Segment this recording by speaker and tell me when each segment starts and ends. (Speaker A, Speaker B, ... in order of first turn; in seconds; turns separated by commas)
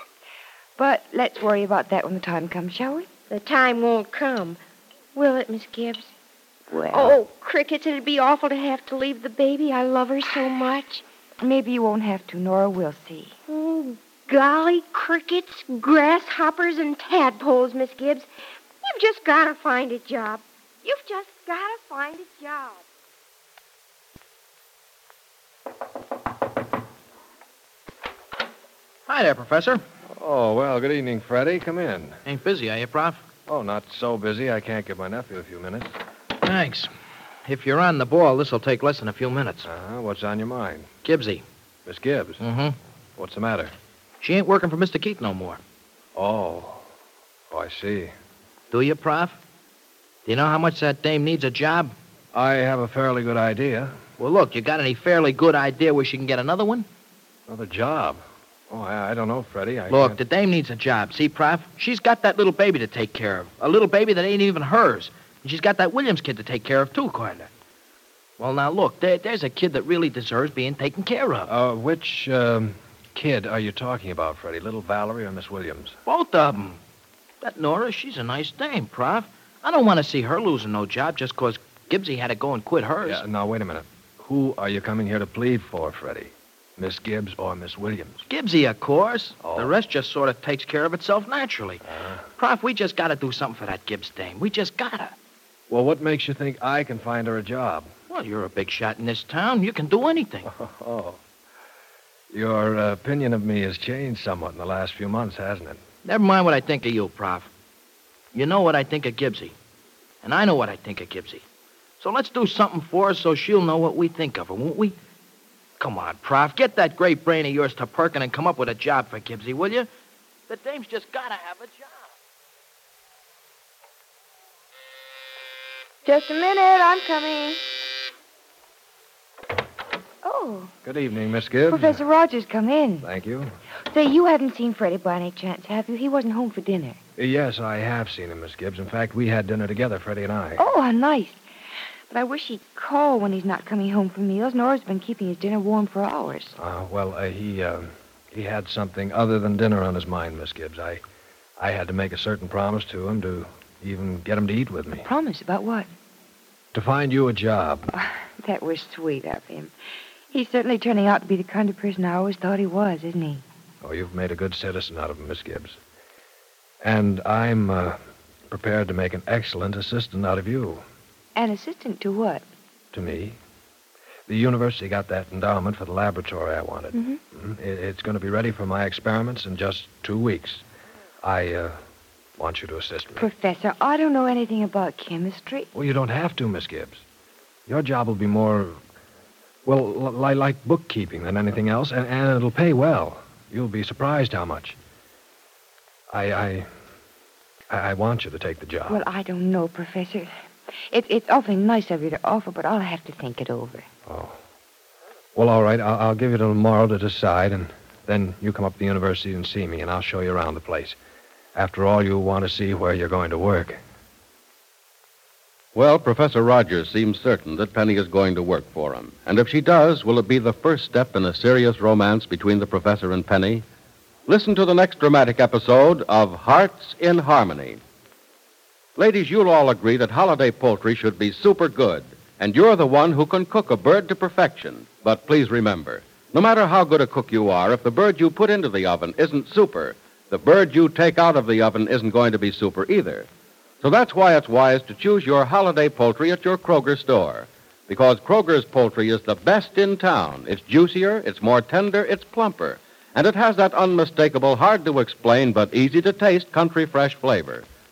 Speaker A: 0.8-3.1, Speaker B: 3.3-4.6, Speaker B: 5.1-6.1, Speaker A: 6.7-7.2, Speaker B: 6.9-11.0, Speaker A: 11.4-13.3, Speaker B: 13.5-18.3, Speaker B: 18.8-22.8, Speaker C: 29.1-29.8, Speaker D: 30.1-32.2, Speaker C: 32.2-33.2, Speaker D: 33.5-35.9, Speaker C: 36.4-36.9, Speaker C: 37.5-39.7, Speaker D: 39.6-40.9, Speaker C: 41.0-41.4, Speaker D: 41.9-42.4, Speaker C: 42.4-42.8, Speaker D: 43.2-43.7, Speaker C: 44.2-45.6, Speaker D: 46.1-46.8, Speaker D: 47.5-48.1, Speaker C: 48.7-49.4, Speaker C: 50.2-51.9, Speaker D: 52.3-54.0, Speaker C: 54.2-56.9, Speaker D: 57.5-60.2, Speaker C: 59.9-67.5, Speaker C: 68.4-71.5, Speaker D: 71.5-76.0, Speaker C: 76.0-76.8, Speaker C: 77.4-83.2, Speaker D: 83.0-88.2, Speaker C: 88.3-91.8, Speaker D: 89.4-89.8, Speaker D: 91.8-92.2, Speaker C: 92.4-95.1, Speaker D: 95.7-97.9, Speaker C: 98.1-100.5, Speaker D: 100.4-101.2, Speaker D: 102.3-105.8, Speaker C: 106.0-107.5, Speaker C: 108.3-109.5, Speaker C: 110.2-111.4, Speaker C: 112.0-115.0, Speaker C: 115.8-119.9, Speaker C: 120.5-122.1, Speaker A: 126.0-127.6, Speaker A: 130.2-130.7, Speaker D: 130.8-132.0, Speaker A: 131.7-133.1, Speaker D: 133.0-133.5, Speaker A: 133.9-137.0, Speaker D: 137.2-140.6, Speaker A: 140.6-141.4, Speaker A: 142.1-146.5, Speaker D: 146.6-151.0, Speaker D: 151.6-155.1, Speaker A: 155.0-155.9, Speaker D: 156.7-157.9, Speaker A: 158.0-159.7, Speaker A: 160.3-163.4, Speaker D: 163.8-165.8, Speaker D: 166.8-168.0, Speaker D: 168.5-170.8, Speaker A: 171.3-172.4, Speaker D: 172.9-173.4, Speaker D: 174.3-180.6, Speaker D: 181.2-181.8, Speaker D: 182.4-183.3, Speaker A: 183.2-185.7, Speaker D: 185.7-187.0, Speaker D: 187.7-188.8, Speaker D: 189.7-194.8, Speaker D: 196.1-196.7, Speaker D: 197.7-199.0, Speaker A: 198.9-200.3, Speaker A: 200.9-203.9, Speaker D: 204.1-204.4, Speaker D: 205.3-211.0, Speaker D: 211.6-213.8, Speaker E: 215.7-223.6, Speaker E: 224.3-227.8, Speaker E: 229.0-243.3, Speaker E: 243.8-257.6